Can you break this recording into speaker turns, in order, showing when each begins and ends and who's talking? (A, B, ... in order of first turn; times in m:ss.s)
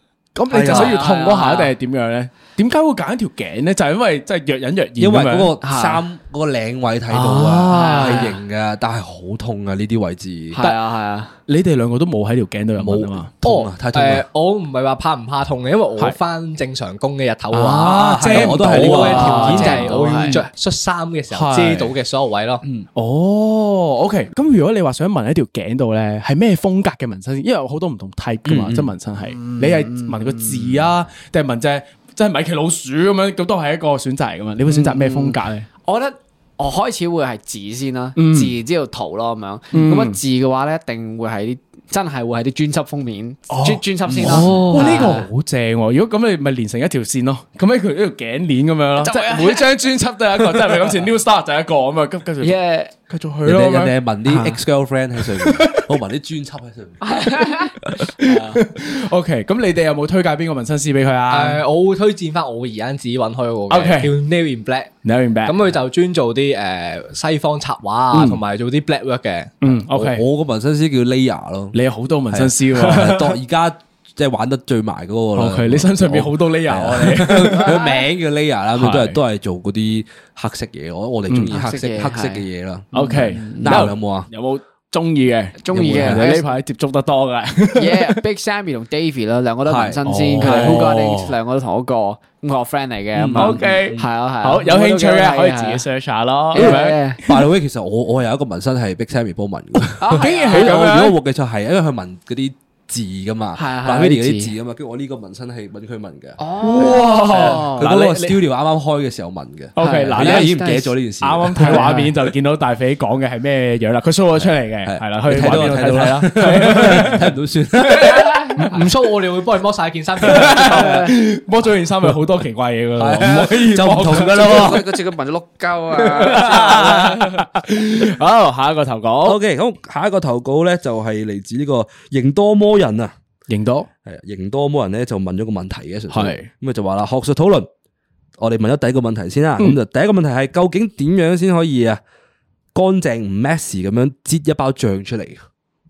0:00.4-0:05.5 A
0:00.5-0:01.0 B
0:00.6-0:01.7 C
0:05.0-0:10.6 B
0:05.6-0:06.0 C
0:07.1-0:08.3 A
0:07.7-0:08.4 C
0:10.6-0:11.3 C
0:11.5-0:13.3 A
0:12.8-0:14.2 B
0:13.4-0:22.6 D
0:17.6-0:20.4 A
0:17.6-0:19.9 B
0:19.1-0:20.4 C
0:21.3-0:21.9 A
0:22.6-0:22.9 B
0:23.0-0:35.7 A
0:28.4-0:28.9 B
0:29.4-0:30.8 C
0:34.7-0:45.3 C
0:38.2-0:38.5 A
0:39.7-0:40.2 A
0:43.5-0:53.9 A
0:44.1-0:44.6 B
0:44.5-0:45.1 D
0:49.0-0:49.7 C
0:52.4-0:52.9 C
0:53.4-0:57.1 B
0:54.3-0:54.6 C
0:55.2-0:56.0 A
0:57.0-0:58.6 C
0:58.0-1:01.6 A
1:01.3-1:04.9 D
1:03.7-1:04.1 A
1:05.0-1:05.7 A
1:05.4-1:09.6 D
1:08.1-1:08.4 A
1:09.6-1:10.2 A
1:09.7-1:11.8 B
1:11.7-1:13.4 A
1:12.3-1:24.3 B
1:15.4-1:17.9 A
1:18.8-1:19.2 A
1:21.3-1:21.6 A
1:21.5-1:23.8 C
1:22.9-1:28.2 A
1:25.6-1:26.5 C
1:25.7-1:26.3 B
1:27.8-1:35.8 C
1:29.7-1:30.9 B
1:30.1-1:31.4 A
1:33.1-1:34.0 B
1:33.3-1:37.5 A
1:36.5-1:37.2 C
1:36.6-1:52.0 B
1:39.8-1:41.2 A
1:40.0-1:40.9 C
1:43.6-1:44.5 C
1:46.4-1:47.9 C
1:46.6-1:48.4 A
1:49.8-1:50.5 A
1:49.8-1:51.0 C
1:51.2-1:57.3 A
1:51.6-1:52.1 C
1:54.4-1:58.4 B
1:58.0-1:58.9 A
1:58.1-1:58.8 C
1:58.7-2:00.9 D
2:00.2-2:04.8 A
2:00.5-2:00.8 B
2:00.7-2:01.1 C
2:03.0-2:05.0 B
2:04.3-2:07.5 C
2:06.0-2:09.4 A
2:09.2-2:13.1 B
2:13.5-2:13.9 A
2:14.1-2:17.7 B
2:16.1-2:16.5 A
2:18.4-2:22.0 B
2:22.7-2:25.4 B